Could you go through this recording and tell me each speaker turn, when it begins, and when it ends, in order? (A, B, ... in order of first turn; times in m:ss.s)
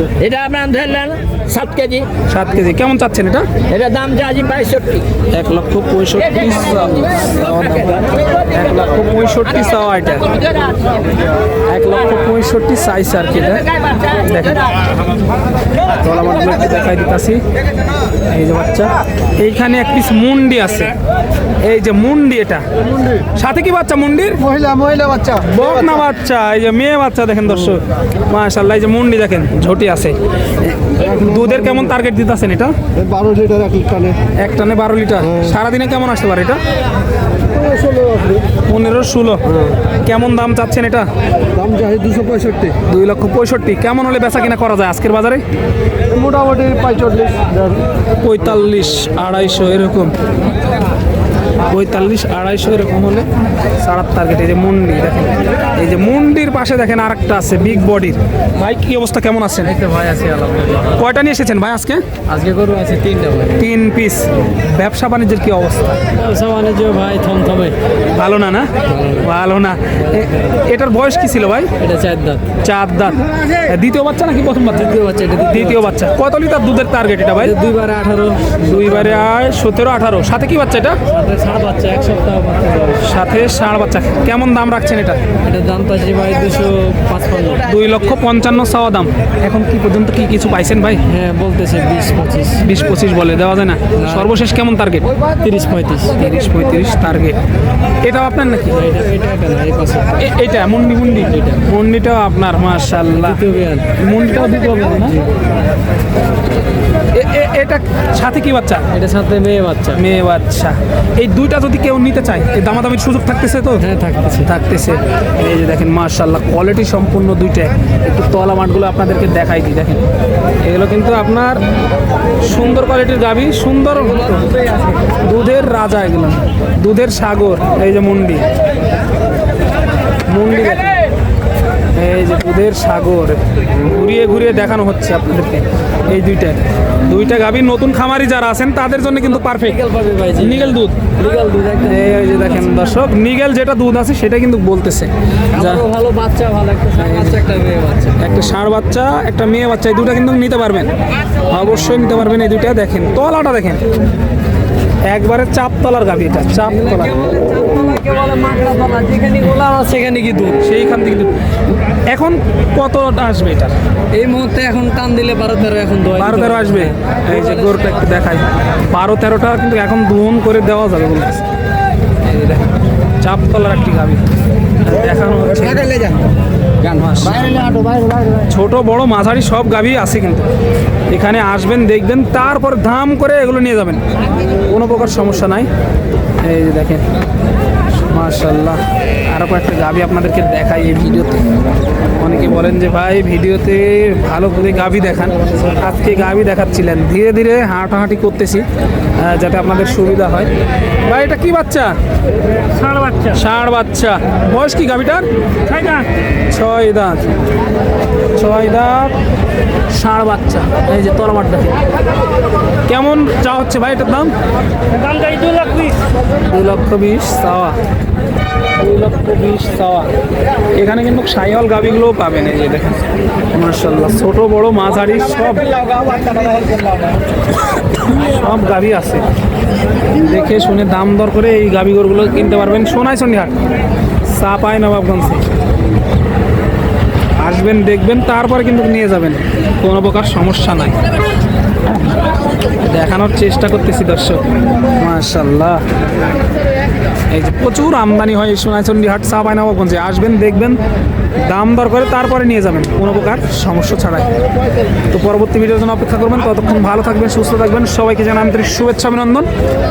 0:00.2-0:02.1 A
0:02.3-0:03.5 B
0:03.7-0:05.1 A
0:05.3-0:10.4 B
0:11.7-0:14.7 B
0:15.9-0:17.4 B
0:18.3-0:21.0 B
0:21.6-0:22.6 B
0:23.2-0:24.5 B
0:24.5-0:25.6 C
0:25.4-0:30.2 B
0:30.9-0:31.8 C
0:31.0-0:32.8 B
0:33.0-0:34.2 C
0:34.4-0:36.6 B
0:37.6-0:38.4 C
0:38.7-0:39.4 B
0:40.0-0:41.1 B
0:41.5-0:42.8 C
0:42.9-0:45.4 B
0:46.1-0:47.8 C
0:48.2-0:50.2 B
0:51.7-0:59.8 B
0:59.7-1:01.0 D
1:00.9-1:02.0 B
1:02.3-1:03.6 D
1:03.6-1:06.0 B
1:06.2-1:07.8 D
1:08.1-1:11.7 B
1:08.9-1:09.3 D
1:10.0-1:10.6 D
1:11.8-1:12.5 D
1:12.6-1:17.6 B
1:14.7-1:15.9 D
1:17.4-1:19.3 D
1:18.6-1:21.0 B
1:21.1-1:23.0 D
1:23.0-1:25.2 B
1:25.4-1:27.6 D
1:27.7-1:31.0 B
1:31.1-1:32.6 D
1:32.6-1:35.1 B
1:34.0-1:34.3 D
1:35.3-1:36.2 D
1:36.1-1:37.4 B
1:38.0-1:38.8 B
1:38.7-1:40.2 D
1:40.2-1:43.4 B
1:41.3-1:41.6 D
1:43.1-1:43.9 D
1:43.9-1:45.2 B
1:47.1-1:48.9 B
1:48.9-1:50.0 D
1:49.9-1:53.9 B
1:53.8-1:54.5 D
1:54.4-2:00.0 B
2:00.6-2:01.6 B
2:02.4-2:04.6 B
2:05.1-2:08.5 B
2:10.3-2:11.0 B
2:12.0-2:19.8 B
2:19.4-2:22.5 D
2:20.4-2:21.0 B
2:21.9-2:25.9 B
2:25.5-2:28.2 D
2:27.0-2:27.4 B
2:28.2-2:30.9 B
2:31.5-2:33.8 B
2:35.1-2:37.2 B
2:36.7-2:40.6 D
2:40.6-2:43.7 B
2:44.1-2:47.9 D
2:46.1-2:51.4 B
2:52.2-2:54.2 B
2:54.8-2:56.1 B
2:56.9-2:57.8 B
2:57.6-2:58.1 A
2:58.4-3:00.5 B
3:01.1-3:05.7 B
3:06.4-3:07.0 B
3:08.0-3:11.5 B
3:12.2-3:18.7 B
3:19.2-3:20.5 B
3:21.0-3:22.0 B
3:22.8-3:23.3 D
3:23.3-3:25.3 B
3:25.7-3:26.0 D
3:26.5-3:27.3 B
3:28.4-3:29.1 B
3:29.9-3:31.8 B
3:32.9-3:34.3 B
3:35.1-3:35.9 D
3:36.5-3:37.8 B
3:38.8-3:40.1 B
3:40.8-3:43.0 B
3:43.5-3:45.7 B
3:46.2-3:46.9 D
3:48.0-3:49.3 B
3:50.2-3:53.6 B
3:54.3-3:55.4 B
3:57.4-4:01.0 B
4:02.8-4:04.4 B
4:05.0-4:05.8 B
4:07.3-4:10.8 B
4:11.4-4:14.3 B
4:15.1-4:19.5 B